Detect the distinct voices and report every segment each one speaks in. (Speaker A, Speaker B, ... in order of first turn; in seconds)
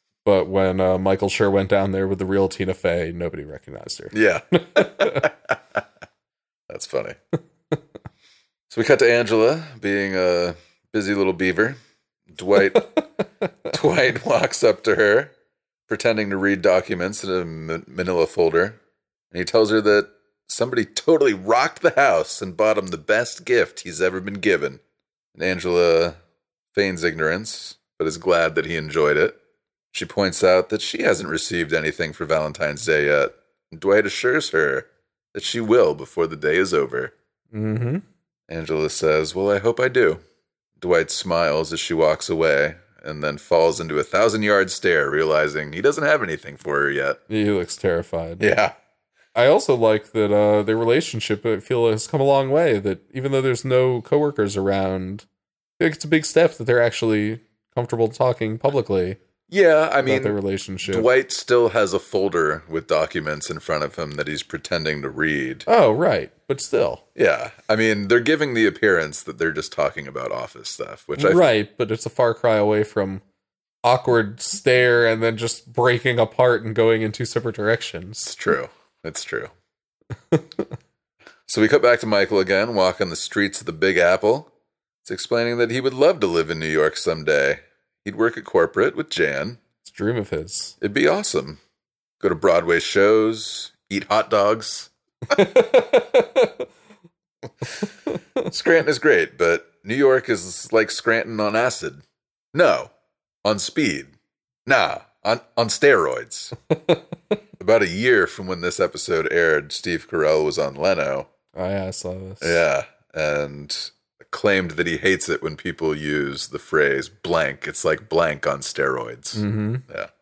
Speaker A: 0.2-4.1, 4.7-5.3, 37.5-38.0, 47.3-48.6, 49.4-55.2, 55.8-59.2, 60.0-61.1, 65.7-67.0, 71.2-73.2, 73.8-78.3, 80.3-80.6, 89.8-90.7, 95.3-96.7, 111.5-112.6, 119.3-119.8
Speaker B: 4.1-5.8, 6.7-7.2, 8.7-11.8, 12.3-12.9, 13.7-15.3, 15.9-18.8, 19.3-24.8, 25.4-26.2, 26.7-29.4, 29.9-37.1, 38.5-40.2, 40.8-47.2, 48.4-48.7, 59.5-65.7, 67.1-71.4, 78.2-79.5, 81.5-84.5, 85.0-89.6, 90.8-91.6, 92.2-94.9, 98.5-102.0, 102.5-102.9, 103.4-104.1, 104.7-106.5, 107.6-111.3, 112.4-120.1